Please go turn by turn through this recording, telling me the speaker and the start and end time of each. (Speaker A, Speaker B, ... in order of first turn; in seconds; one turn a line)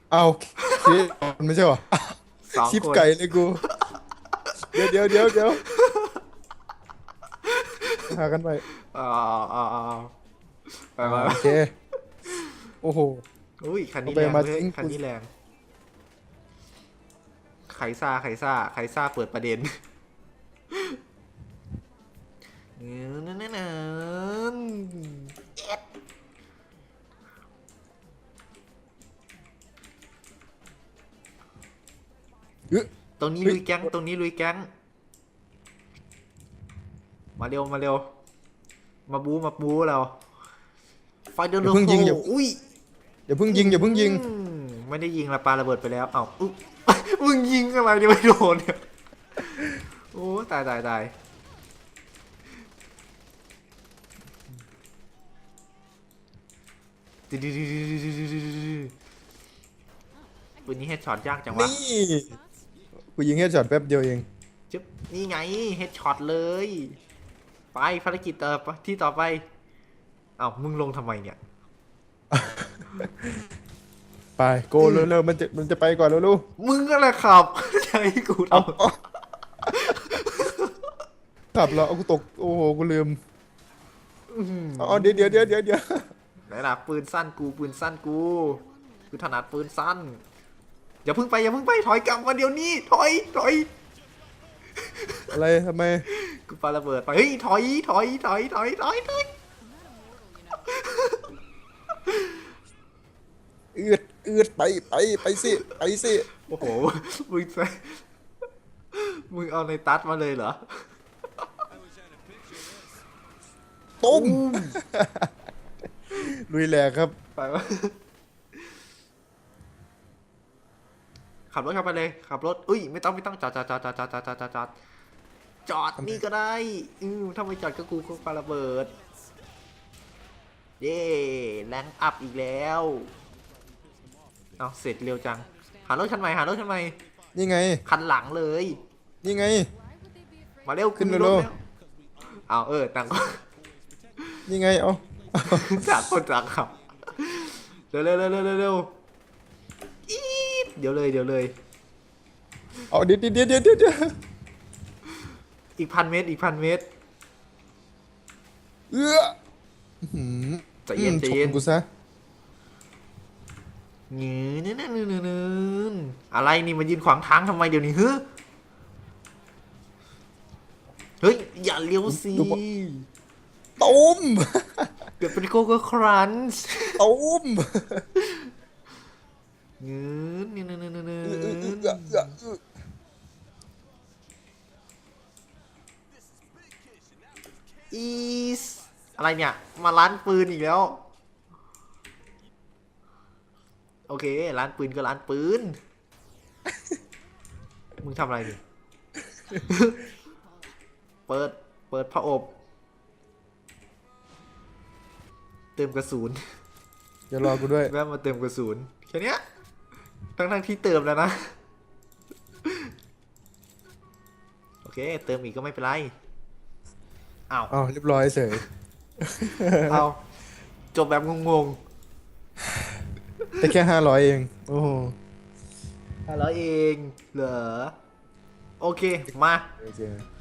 Speaker A: 0.1-3.6
Speaker B: 0.6-1.0
Speaker B: 2.5-3.1
Speaker B: 4.6-6.2
Speaker A: 4.7-5.6
Speaker B: 7.4-8.1
Speaker A: 8.1-8.6
Speaker B: 8.8-10.1
Speaker B: 10.7-11.6
Speaker A: 11.0-11.7
Speaker B: 12.3-12.6
Speaker A: 12.8-13.2
Speaker B: 13.6-15.3
Speaker A: 14.1-15.0
Speaker B: 17.7-19.8
Speaker B: 20.7-21.0
Speaker B: 22.8-25.8
Speaker B: 33.2-34.7
Speaker B: 37.4-38.1
Speaker B: 39.1-40.2
Speaker B: 41.3-42.6
Speaker A: 41.6-42.2
Speaker A: 43.3-44.2
Speaker B: 43.5-48.9
Speaker B: 49.4-51.1
Speaker B: 57.3-58.9
Speaker C: 60.5-60.9
Speaker B: 60.7-61.8
Speaker A: 61.5-62.3
Speaker A: 63.2-64.3
Speaker B: 64.7-67.0
Speaker B: 67.7-69.5
Speaker B: 70.4-71.4
Speaker A: 72.3-73.4
Speaker A: 74.4-76.5
Speaker B: 74.8-75.1
Speaker B: 76.6-78.8
Speaker A: 78.5-79.0
Speaker B: 79.7-80.9
Speaker A: 81.5-83.2
Speaker B: 84.3-85.5
Speaker A: 84.8-86.1
Speaker B: 86.5-90.2
Speaker C: 88.5-89.5
Speaker B: 91.0-93.7
Speaker B: 94.8-95.3
Speaker A: 95.3-96.1
Speaker B: 96.1-99.3
Speaker C: 99.6-100.8
Speaker B: 100.7-101.3
Speaker B: 102.1-102.3
Speaker A: 103.8-106.3
Speaker B: 105.3-105.7
Speaker B: 106.4-108.0
Speaker B: 108.9-110.9
Speaker A: 114.0-115.3
Speaker B: 114.1-114.8
Speaker A: 116.1-117.2
Speaker B: 117.4-118.0
Speaker B: 121.5-124.7
Speaker B: 125.7-128.9
Speaker C: 128.9-129.3
Speaker B: 130.8-133.1
Speaker B: 134.6-137.0
Speaker C: 135.4-135.9
Speaker A: 137.3-137.8
Speaker B: 137.9-138.8
Speaker A: 139.2-139.7
Speaker C: 139.7-141.5
Speaker B: 140.7-141.6
Speaker A: 141.0-141.5
Speaker B: 142.3-143.4
Speaker A: 144.5-146.1
Speaker B: 145.4-148.9
Speaker B: 150.1-151.5
Speaker A: 152.9-154.1
Speaker B: 155.8-156.9
Speaker A: 158.9-159.3
Speaker A: 160.0-161.8
Speaker B: 160.9-161.6
Speaker B: 164.1-168.2
Speaker B: 171.2-173.1
Speaker A: 172.1-172.6
Speaker A: 173.8-174.9
Speaker B: 175.2-177.0
Speaker A: 177.0-178.1
Speaker B: 178.2-178.5
Speaker B: 179.8-182.3
Speaker A: 181.2-182.6
Speaker B: 187.9-191.0
Speaker B: 194.1-195.8
Speaker B: 198.0-198.6
Speaker B: 199.6-200.0
Speaker B: 201.3-202.5
Speaker B: 205.8-206.5
Speaker A: 207.3-207.9
Speaker B: 207.9-209.4
Speaker B: 210.4-211.6
Speaker B: 212.6-212.9
Speaker B: 214.8-216.1
Speaker A: 217.7-218.6
Speaker A: 219.2-220.1
Speaker B: 219.9-220.2
Speaker B: 220.9-221.8
Speaker A: 223.6-225.2
Speaker B: 226.3-227.9
Speaker B: 228.8-229.7
Speaker A: 229.8-230.2